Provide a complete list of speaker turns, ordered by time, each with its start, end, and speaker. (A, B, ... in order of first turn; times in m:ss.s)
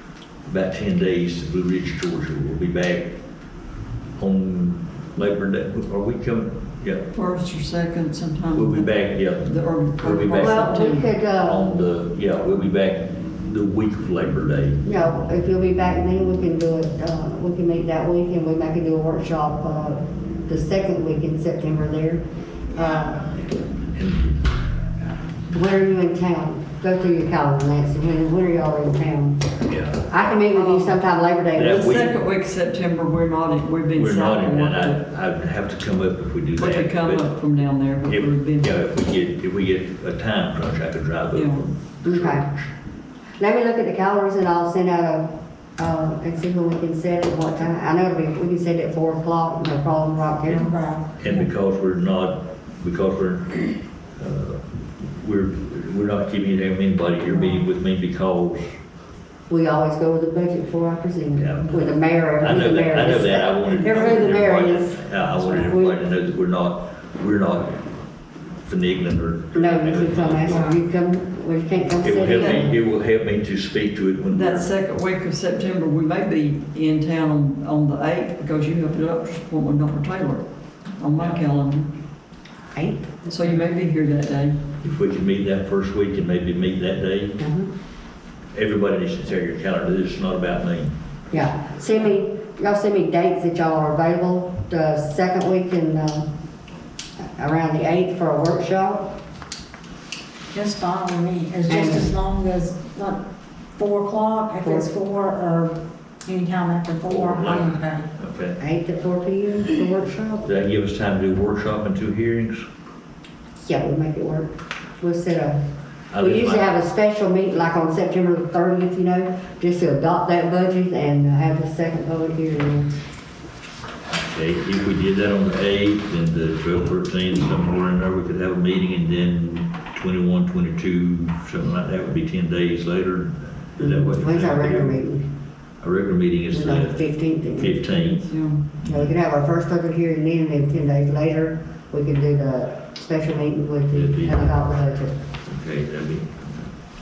0:00.4-0:03.2 A
0:04.2-0:07.1 A
0:07.1-0:11.1 B
0:08.5-0:10.7 A
0:10.3-0:11.8 C
0:11.4-0:14.8 A
0:14.8-0:23.4 C
0:23.9-0:24.3 A
0:25.5-0:29.5 C
0:29.7-0:30.4 A
0:30.1-0:32.1 C
0:30.5-0:31.0 B
0:31.5-0:32.2 A
0:31.6-0:35.0 B
0:34.0-0:37.3 A
0:36.6-0:38.7 B
0:38.1-0:42.7 A
0:41.3-0:41.6 B
0:42.0-0:42.5 C
0:43.4-0:50.8 C
0:50.6-0:51.4 D
0:51.2-0:58.7 A
0:59.5-1:06.0 C
1:01.4-1:07.8 A
1:08.6-1:10.8 A
1:09.5-1:12.8 C
1:12.0-1:14.7 A
1:12.3-1:12.7 B
1:14.3-1:21.9 B
1:22.7-1:23.5 C
1:23.2-1:24.5 B
1:24.8-1:27.4 A
1:27.4-1:27.7 C
1:28.5-1:30.9 A
1:31.3-1:36.3 C
1:37.2-1:39.1 C
1:40.5-1:43.2 D
1:41.7-1:42.1 C
1:43.8-1:48.0 D
1:44.6-1:44.9 C
1:47.0-1:48.6 A
1:48.6-1:50.5 C
1:50.4-1:52.6 A
1:53.6-1:55.6 C
1:56.1-1:56.6 A
1:56.2-2:02.9 C
2:04.1-2:15.0 A
2:13.8-2:15.3 C
2:15.8-2:17.0 A
2:16.5-2:17.8 C
2:17.6-2:18.2 A
2:17.9-2:18.6 B
2:18.8-2:19.1 A
2:18.8-2:25.2 C
2:23.9-2:24.5 A
2:25.4-2:26.7 A